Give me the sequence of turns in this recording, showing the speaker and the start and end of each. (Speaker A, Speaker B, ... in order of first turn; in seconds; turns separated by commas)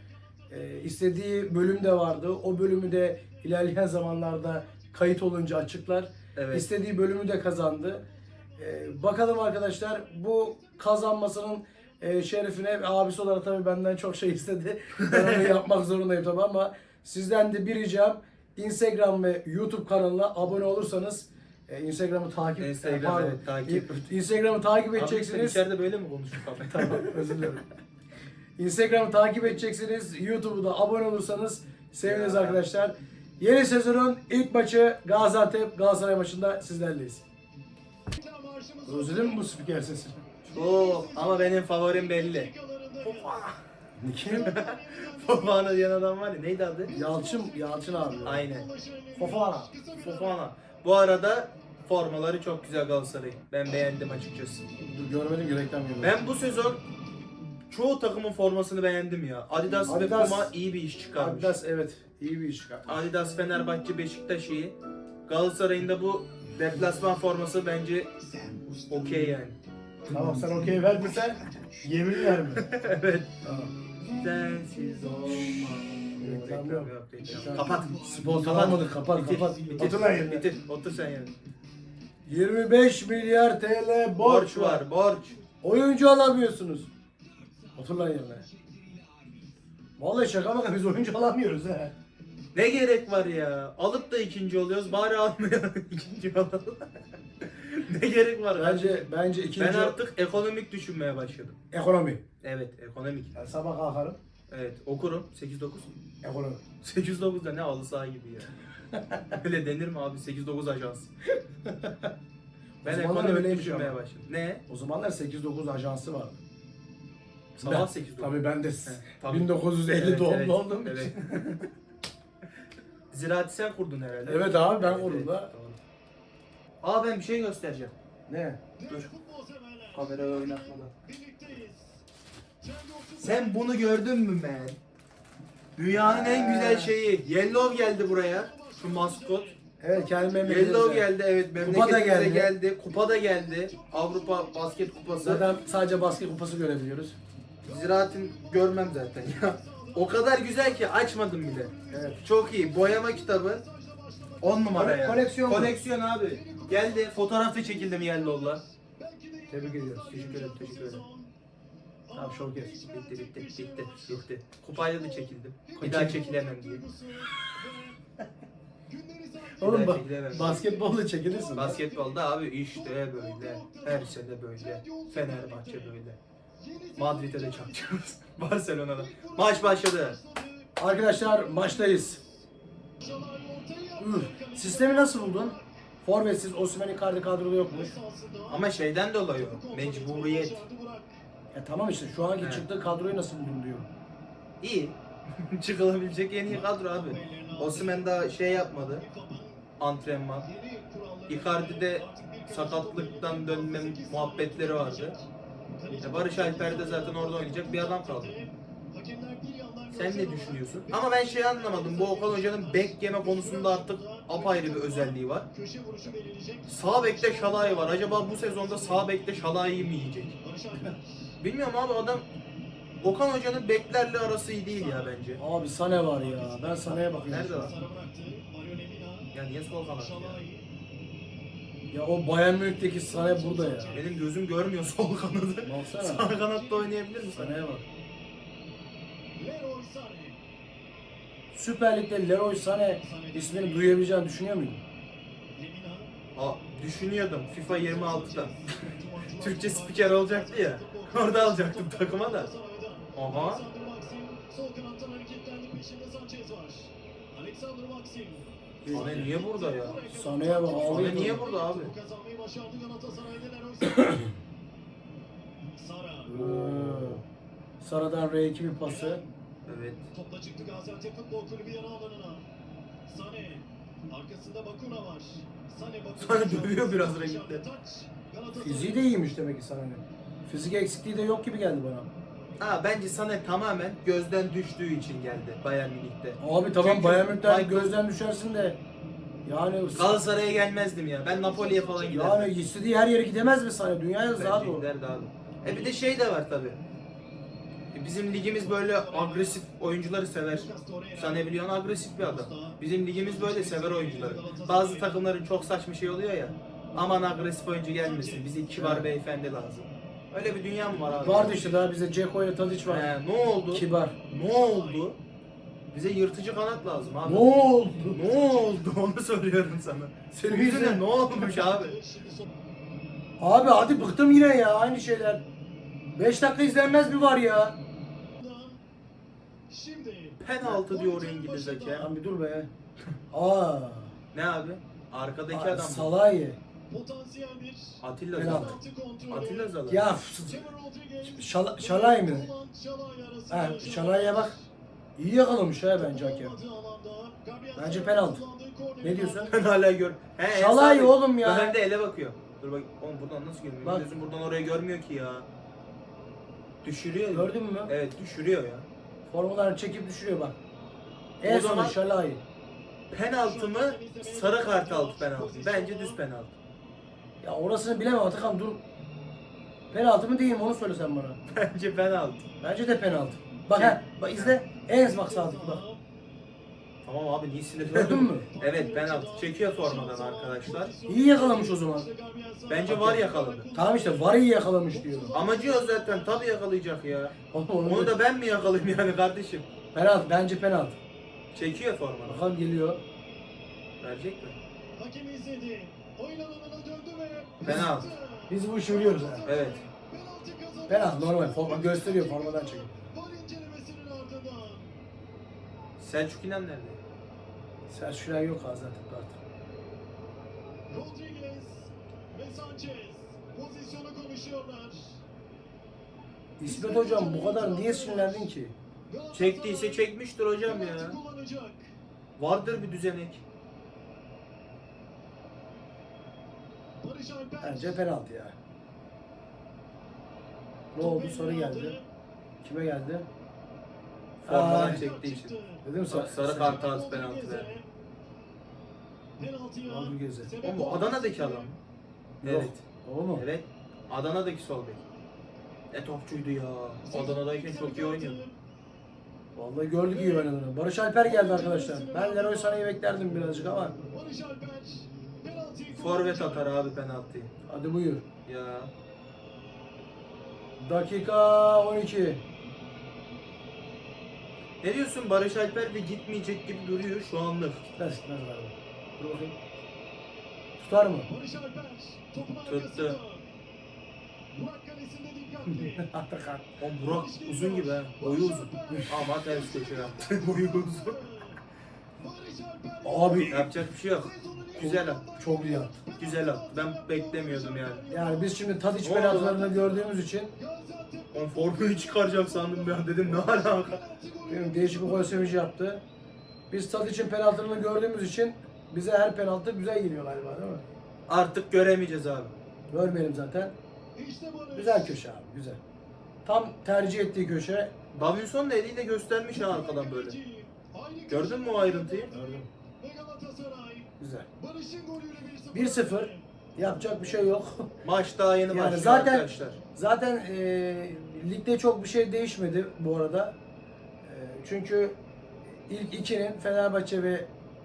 Speaker A: 0.5-8.0, Speaker B: 6.3-6.7, Speaker C: 8.6-10.8, Speaker A: 8.6-25.6, Speaker B: 15.0-15.5, Speaker B: 22.6-23.9, Speaker B: 24.9-27.6, Speaker A: 26.6-27.6, Speaker A: 28.6-37.2, Speaker B: 32.0-32.6, Speaker C: 38.1-39.5, Speaker A: 38.9-40.2, Speaker B: 40.5-42.5, Speaker C: 40.5-43.5, Speaker B: 43.0-43.5, Speaker A: 44.0-44.5, Speaker C: 44.2-45.8, Speaker B: 44.2-46.9, Speaker C: 46.9-50.4, Speaker A: 46.9-48.5, Speaker B: 48.2-48.7, Speaker A: 49.1-49.7, Speaker B: 50.0-54.7, Speaker A: 54.8-56.2, Speaker B: 56.0-56.8, Speaker B: 57.7-61.6, Speaker A: 59.9-60.5, Speaker A: 61.1-63.0, Speaker B: 62.9-64.7, Speaker B: 65.2-68.1, Speaker C: 68.4-69.2, Speaker B: 68.9-69.5, Speaker B: 70.1-70.5, Speaker A: 70.1-72.7, Speaker B: 72.5-73.3, Speaker A: 73.4-73.7, Speaker B: 74.1-81.3, Speaker A: 75.3-80.5, Speaker A: 82.2-84.8, Speaker B: 84.2-85.4, Speaker A: 85.6-86.9, Speaker A: 87.7-88.4, Speaker A: 90.0-91.9, Speaker B: 92.5-99.0, Speaker A: 98.5-100.0, Speaker B: 99.6-101.5, Speaker A: 101.7-102.2, Speaker B: 102.4-103.3, Speaker A: 103.3-104.2, Speaker B: 104.5-105.9, Speaker A: 106.2-106.6, Speaker B: 106.8-108.5, Speaker A: 108.9-109.3, Speaker B: 109.3-111.1, Speaker A: 111.7-112.1, Speaker A: 112.8-114.0, Speaker B: 112.8-114.6, Speaker A: 114.7-116.4, Speaker B: 117.5-121.7, Speaker A: 117.6-121.5, Speaker B: 123.1-125.8, Speaker A: 124.2-125.5, Speaker B: 126.8-127.9, Speaker A: 128.3-128.6, Speaker C: 128.8-132.0, Speaker B: 129.9-130.9, Speaker C: 132.6-133.6, Speaker B: 133.2-134.8, Speaker B: 135.8-139.5, Speaker A: 135.9-136.9, Speaker C: 137.3-140.7, Speaker A: 139.8-142.5, Speaker B: 140.4-145.4, Speaker C: 142.8-146.2, Speaker A: 145.2-147.2, Speaker C: 147.6-161.3, Speaker B: 147.7-153.6, Speaker A: 151.9-152.2, Speaker B: 154.4-158.6, Speaker A: 154.7-155.8, Speaker A: 159.5-160.1, Speaker B: 160.1-161.0, Speaker C: 162.1-168.0, Speaker A: 162.1-162.8, Speaker B: 162.9-166.8, Speaker A: 165.8-166.2, Speaker C: 168.9-176.0, Speaker A: 169.6-171.8, Speaker B: 169.6-170.6, Speaker B: 171.5-176.2, Speaker C: 176.6-178.1, Speaker B: 177.0-180.2, Speaker C: 178.9-182.3, Speaker A: 180.8-182.2, Speaker C: 183.0-185.7, Speaker A: 184.0-187.9, Speaker C: 187.6-188.7, Speaker B: 188.5-190.6, Speaker C: 189.3-191.2, Speaker A: 191.5-193.9, Speaker B: 192.4-192.7, Speaker B: 194.6-199.0, Speaker C: 196.5-198.2, Speaker C: 198.9-199.6, Speaker B: 199.8-200.5, Speaker C: 200.4-205.3, Speaker B: 201.3-205.2, Speaker C: 205.8-219.1, Speaker B: 206.0-208.3, Speaker B: 209.9-215.4, Speaker B: 216.7-220.3, Speaker C: 220.4-221.3, Speaker B: 221.4-222.2, Speaker B: 223.0-225.4, Speaker C: 224.7-225.2, Speaker A: 225.4-227.7, Speaker C: 225.8-229.3, Speaker B: 227.3-227.7, Speaker B: 229.3-230.4, Speaker C: 230.0-230.7, Speaker A: 231.9-233.9, Speaker C: 233.0-234.2, Speaker B: 233.9-237.6, Speaker A: 235.6-236.3, Speaker C: 236.2-237.1, Speaker A: 237.2-237.8, Speaker C: 239.3-240.4, Speaker A: 241.5-244.8, Speaker C: 243.0-244.0, Speaker C: 245.5-246.2, Speaker B: 246.3-248.5, Speaker C: 247.7-264.3, Speaker B: 249.4-252.5, Speaker B: 253.1-253.6, Speaker A: 258.8-259.3, Speaker B: 258.9-260.0, Speaker A: 260.1-261.5, Speaker B: 260.7-261.9, Speaker A: 263.8-264.2, Speaker C: 265.7-266.4, Speaker A: 266.3-267.2, Speaker B: 266.3-267.2, Speaker A: 267.8-269.2, Speaker C: 268.8-269.3, Speaker B: 269.6-270.1, Speaker C: 270.1-272.5, Speaker C: 273.1-279.1, Speaker B: 276.2-277.6, Speaker A: 278.5-282.1, Speaker B: 282.6-287.9, Speaker A: 286.4-288.8, Speaker A: 289.4-290.2, Speaker B: 289.9-292.5, Speaker C: 291.2-292.4, Speaker A: 292.1-294.9, Speaker B: 294.3-296.8, Speaker C: 295.6-296.0, Speaker B: 297.9-311.7, Speaker C: 298.4-299.6, Speaker C: 300.5-301.6, Speaker C: 302.1-305.3, Speaker C: 308.0-308.7, Speaker A: 308.8-309.0, Speaker C: 311.1-311.8, Speaker A: 311.2-313.1, Speaker B: 312.9-315.2, Speaker A: 313.7-314.2, Speaker C: 314.2-315.1, Speaker B: 315.9-317.5, Speaker A: 317.2-318.2, Speaker B: 318.1-322.0, Speaker C: 318.1-318.8, Speaker A: 320.3-321.1, Speaker C: 321.3-322.5, Speaker A: 323.4-325.4, Speaker A: 326.1-327.8, Speaker C: 328.4-328.8, Speaker C: 329.7-332.1, Speaker B: 330.4-332.1, Speaker A: 331.9-332.7, Speaker A: 333.3-334.1, Speaker B: 334.3-336.1, Speaker A: 335.5-336.6, Speaker C: 336.9-339.8, Speaker B: 338.0-338.8, Speaker A: 338.4-338.8, Speaker B: 339.3-340.1, Speaker A: 339.9-340.7, Speaker C: 340.5-344.6, Speaker A: 341.2-342.5, Speaker A: 343.5-344.5, Speaker A: 345.1-346.5, Speaker C: 346.0-349.6, Speaker A: 347.8-348.4, Speaker A: 349.0-349.5, Speaker B: 349.5-355.5, Speaker A: 350.5-351.8, Speaker B: 356.8-358.9, Speaker A: 357.3-357.9, Speaker A: 359.3-360.6, Speaker A: 361.4-362.4, Speaker B: 361.4-362.0, Speaker B: 363.1-366.5, Speaker C: 363.4-366.2, Speaker A: 367.4-368.8, Speaker A: 369.9-371.4, Speaker B: 371.5-372.5, Speaker A: 372.6-375.8, Speaker B: 373.7-374.6, Speaker C: 374.8-376.0, Speaker B: 377.0-380.9, Speaker A: 377.8-378.5, Speaker C: 378.1-386.5, Speaker A: 381.1-382.1, Speaker B: 382.7-383.7, Speaker A: 382.9-385.4, Speaker B: 385.3-389.7, Speaker A: 387.5-388.2, Speaker A: 389.9-391.0, Speaker B: 391.5-392.4, Speaker A: 392.2-393.0, Speaker B: 394.0-394.6, Speaker C: 394.9-405.0, Speaker B: 397.6-398.1, Speaker A: 397.6-397.9, Speaker A: 398.5-399.5, Speaker B: 399.4-399.8, Speaker A: 400.9-402.9, Speaker B: 406.0-407.0, Speaker A: 407.9-409.4, Speaker C: 410.9-415.2, Speaker A: 416.6-418.7, Speaker C: 416.6-418.5, Speaker C: 419.1-420.1, Speaker B: 419.3-421.2, Speaker C: 420.6-421.9, Speaker B: 422.4-423.4, Speaker C: 427.0-428.0, Speaker A: 427.6-428.5, Speaker A: 430.9-432.0, Speaker C: 431.0-432.1, Speaker A: 432.6-433.3, Speaker A: 434.4-435.0, Speaker B: 434.4-435.6, Speaker C: 434.5-435.8, Speaker A: 435.8-436.8, Speaker B: 436.1-437.7, Speaker C: 436.4-437.9, Speaker C: 439.4-441.7, Speaker A: 439.9-440.5, Speaker B: 440.6-441.8, Speaker B: 442.4-442.8, Speaker A: 442.4-443.4, Speaker B: 443.4-445.0, Speaker B: 445.9-448.4, Speaker C: 447.1-448.6, Speaker A: 449.5-453.9, Speaker C: 450.1-450.5, Speaker C: 451.2-452.9, Speaker C: 454.1-456.7, Speaker B: 455.9-457.5, Speaker A: 457.6-458.2, Speaker B: 458.4-458.9, Speaker A: 460.8-462.4, Speaker B: 464.8-467.9, Speaker A: 468.0-469.5, Speaker A: 470.8-471.3, Speaker C: 471.3-473.4, Speaker B: 472.6-473.2, Speaker C: 474.5-476.1, Speaker A: 475.8-476.7, Speaker B: 476.8-481.2, Speaker C: 477.1-481.6, Speaker C: 482.2-495.6, Speaker A: 483.0-483.7, Speaker B: 483.5-485.2, Speaker A: 484.8-485.9, Speaker B: 486.2-488.0, Speaker A: 488.1-490.5, Speaker B: 489.0-489.6, Speaker B: 491.3-494.0, Speaker A: 494.5-496.0, Speaker A: 496.7-500.8, Speaker B: 501.3-502.6, Speaker A: 502.9-503.7, Speaker C: 504.1-505.2, Speaker A: 504.7-505.8, Speaker A: 506.4-507.9, Speaker B: 508.1-510.4, Speaker C: 509.5-516.4, Speaker B: 511.3-512.3, Speaker A: 512.3-512.7, Speaker A: 514.2-514.5, Speaker A: 515.7-517.9, Speaker B: 518.0-519.8, Speaker A: 518.7-523.6, Speaker A: 524.2-525.2, Speaker A: 525.9-527.5